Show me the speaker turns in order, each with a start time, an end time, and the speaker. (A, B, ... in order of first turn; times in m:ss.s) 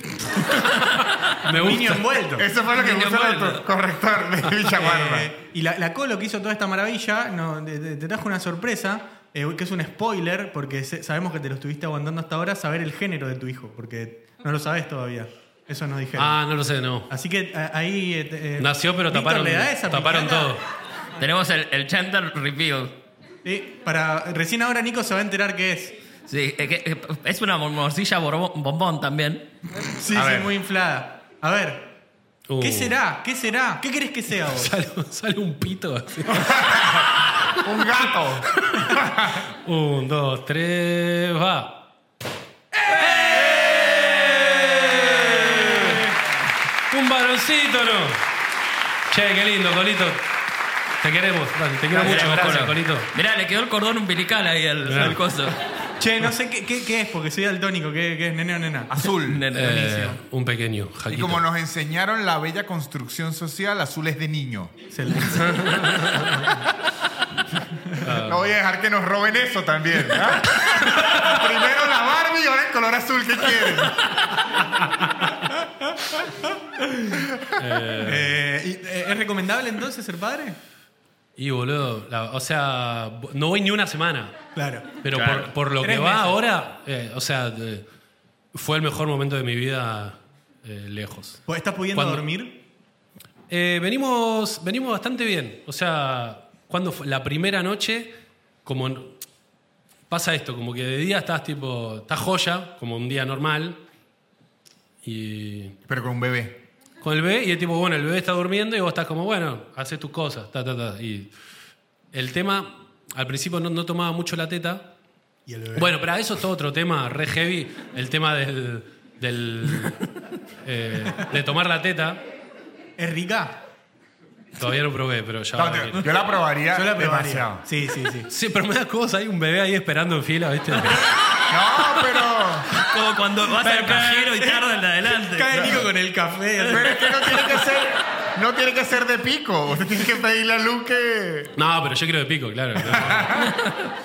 0:00.6-0:01.2 A
0:01.4-0:02.2 B
0:01.5-0:02.5 C
0:02.4-0:05.3 D
0:02.7-0:03.6 A
0:04.7-0:16.4 C
0:16.2-0:17.1 B
0:17.1-0:20.5 C
0:18.6-0:20.6 B
0:21.2-0:22.9 A
0:23.4-0:26.0 C
0:26.3-0:29.5 A
0:30.0-0:31.9 C
0:30.1-0:30.5 D
0:32.5-0:33.0 B
0:32.6-0:34.7 C
0:34.5-0:37.6 B
0:36.4-0:39.4 D
0:38.5-0:41.8 B
0:42.9-0:46.1 A
0:44.0-0:46.0 B
0:46.9-0:48.2 B
0:49.1-0:50.2 B
0:51.0-0:53.1 B
0:51.9-0:52.6 C
0:52.0-0:55.6 A
0:54.8-0:55.2 B
0:56.0-0:58.9 C
0:58.9-0:59.4 D
0:59.2-1:00.2 A
0:59.5-1:01.4 B
1:01.1-1:04.7 D
1:04.9-1:05.8 C
1:05.2-1:06.5 B
1:08.0-1:08.5 B
1:08.1-1:14.0 D
1:16.8-1:17.2 C
1:17.6-1:18.4 B
1:18.0-1:20.6 C
1:21.4-1:24.4 B
1:24.6-1:24.9 C
1:25.0-1:27.8 B
1:25.2-1:25.5 A
1:25.8-1:26.4 C
1:28.5-1:32.2 B
1:31.5-1:32.6 C
1:33.5-1:38.1 B
1:38.6-1:39.2 B
1:40.1-1:43.8 B
1:45.0-1:45.8 B
1:45.9-1:46.6 D
1:47.0-1:51.3 B
1:52.1-1:54.9 B
1:55.5-1:55.9 C
1:55.8-2:00.0 B
2:00.6-2:02.2 B
2:03.0-2:03.6 C
2:04.6-2:06.0 B
2:05.6-2:07.6 D
2:06.7-2:08.3 C
2:08.3-2:11.0 B
2:10.9-2:12.0 A
2:11.5-2:12.7 D
2:12.8-2:15.8 A
2:13.6-2:14.4 B
2:15.2-2:17.0 C
2:15.5-2:15.9 D
2:16.7-2:21.6 D
2:21.6-2:23.5 B
2:22.8-2:23.5 D
2:23.4-2:23.9 A